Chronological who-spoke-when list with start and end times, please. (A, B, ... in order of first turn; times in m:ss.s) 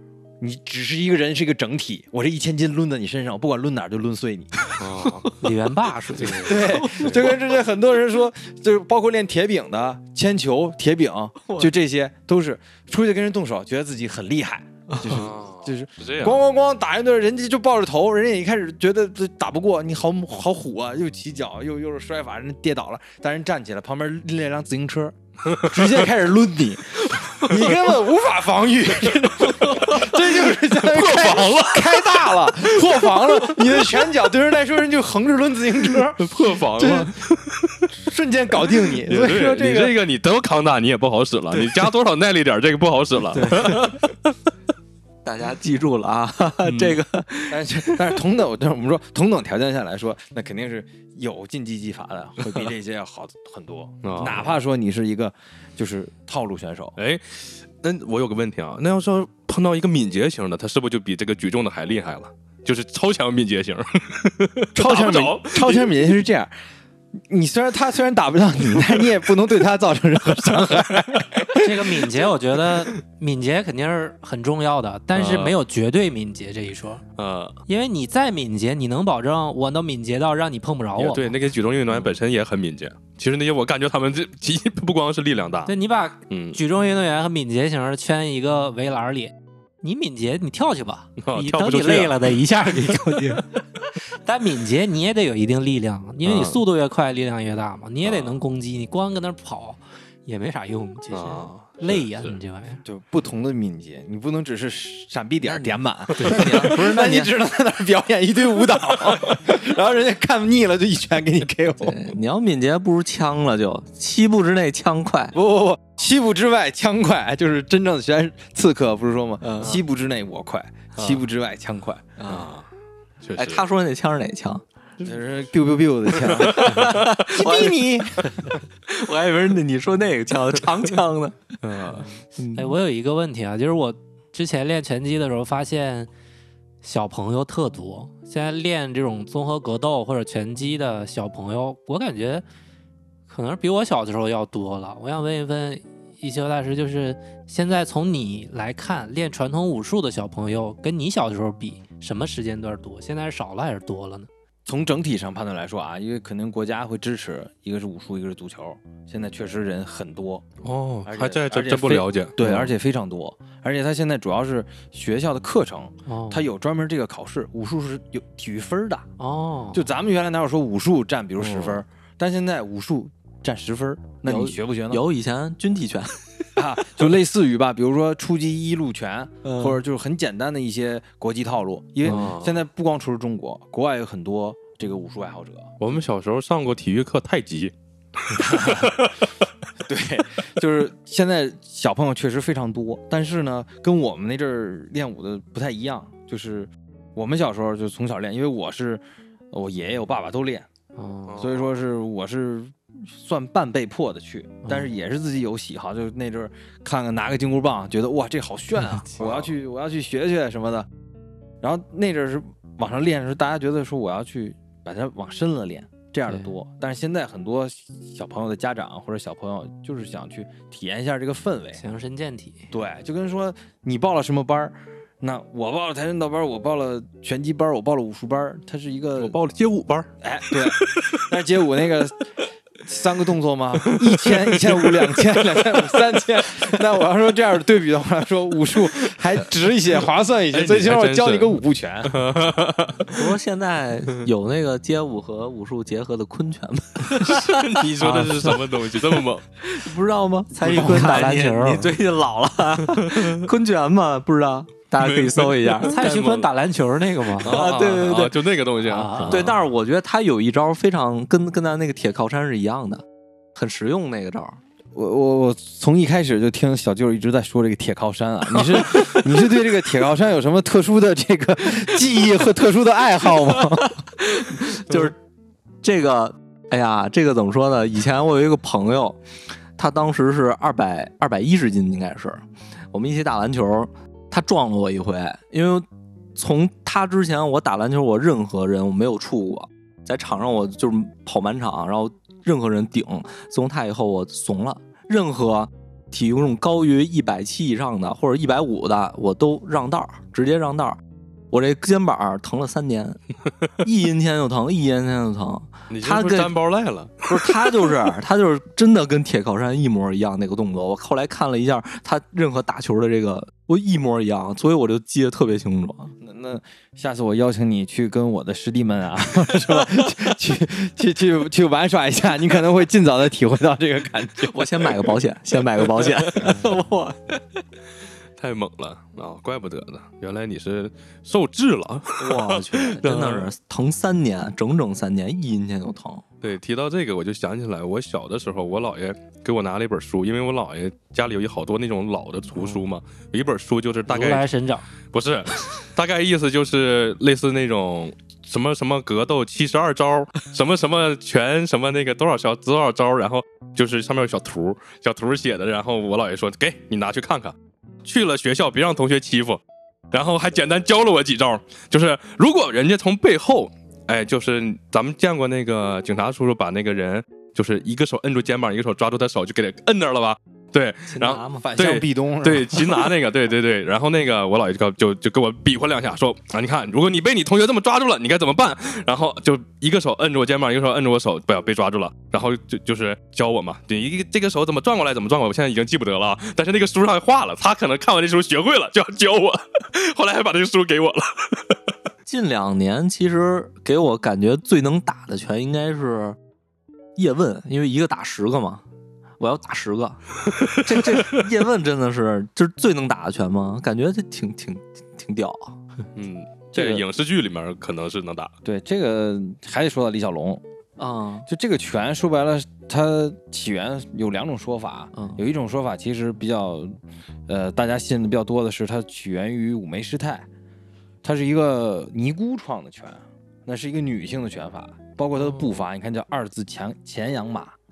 0:00.4-0:04.7 A
0:04.8-0:05.3 B
0:05.4-0:06.6 C
0:06.2-0:07.3 B
0:06.3-0:37.2 A
0:06.6-0:07.3 D
0:11.4-0:11.7 D
0:14.9-0:15.3 D
0:15.0-0:16.4 B
0:25.5-0:25.9 B
0:29.8-0:33.8 B
0:36.2-0:37.9 B
0:37.9-0:40.0 A
0:39.0-0:44.3 B
0:43.4-0:43.8 C
0:43.4-0:44.0 D
0:45.2-0:48.2 D
0:46.6-0:47.0 B
0:47.5-0:57.0 A
0:54.0-0:54.5 B
0:57.0-1:06.1 B
1:04.8-1:06.5 A
1:07.3-1:11.6 A
1:11.6-1:17.0 C
1:15.2-1:15.6 B
1:17.2-1:17.6 B
1:17.7-1:21.3 C
1:21.0-1:25.7 B
1:25.7-1:42.8 C
1:26.3-1:26.6 B
1:31.2-1:33.0 B
1:36.2-1:36.6 B
1:38.0-1:38.4 B
1:41.1-1:42.4 B
1:42.8-1:52.2 A
1:45.4-1:47.3 D
1:51.8-1:55.4 D
1:55.3-2:02.1 A
1:59.4-1:59.8 D
2:01.0-2:01.2 B
2:02.2-2:02.5 D
2:02.3-2:02.6 B
2:03.2-2:03.6 B
2:03.4-2:04.6 D
2:05.0-2:08.6 A
2:06.2-2:07.2 B
2:06.4-2:11.4 D
2:11.6-2:12.1 B
2:12.0-2:12.8 D
2:12.5-2:16.1 C
2:16.8-2:22.4 C
2:23.3-2:34.3 C
2:34.7-2:40.5 A
2:40.6-2:42.4 B
2:41.1-2:49.1 A
2:46.1-2:46.4 C
2:49.2-2:49.8 C
2:49.7-2:55.0 A
2:51.4-2:51.8 B
2:54.2-2:56.5 D
2:56.6-3:05.7 A
2:59.4-2:59.8 D
3:02.0-3:02.6 B
3:05.8-3:09.2 B
3:08.4-3:09.1 A
3:09.8-3:20.7 A
3:21.0-3:21.4 C
3:21.3-3:21.7 B
3:21.4-3:30.9 A
3:29.2-3:29.5 B
3:31.6-3:41.8 A
3:41.8-3:42.7 C
3:42.7-3:49.4 A
3:49.2-3:51.2 B
3:50.2-3:52.3 A
3:52.8-4:02.2 A
3:53.8-3:55.9 B
4:00.5-4:03.4 B
4:03.1-4:08.6 D
4:07.1-4:09.5 B
4:08.0-4:08.6 C
4:09.1-4:16.2 D
4:10.6-4:12.0 C
4:10.7-4:11.1 B
4:12.8-4:13.3 B
4:15.0-4:16.5 B
4:15.9-4:17.7 C
4:17.4-4:18.4 D
4:17.4-4:19.6 B
4:18.8-4:19.5 C
4:19.3-4:23.0 D
4:23.6-4:24.6 D
4:25.0-4:34.0 A
4:33.5-4:35.2 D
4:35.8-4:39.2 D
4:39.8-5:03.2 D
5:03.8-5:06.5 D
5:05.9-5:08.0 B
5:07.3-5:16.2 D
5:16.2-5:24.9 A
5:24.4-5:27.4 D
5:25.8-5:26.6 B
5:28.4-5:33.5 B
5:32.2-5:36.2 D
5:36.4-5:44.5 B
5:42.6-5:42.8 C
5:44.1-5:44.9 C
5:45.1-5:59.6 B
6:00.1-6:31.8 B
6:11.1-6:11.7 D
6:11.6-6:13.2 A
6:32.3-6:36.4 D
6:37.2-6:38.8 D
6:39.4-6:45.8 D
6:40.6-6:41.4 B
6:46.2-6:48.5 B
6:46.7-6:47.0 A
6:48.6-6:50.6 A
6:51.0-6:51.5 D
6:51.5-6:57.0 A
6:55.2-6:55.4 D
6:57.5-7:00.5 A
7:01.2-7:07.8 A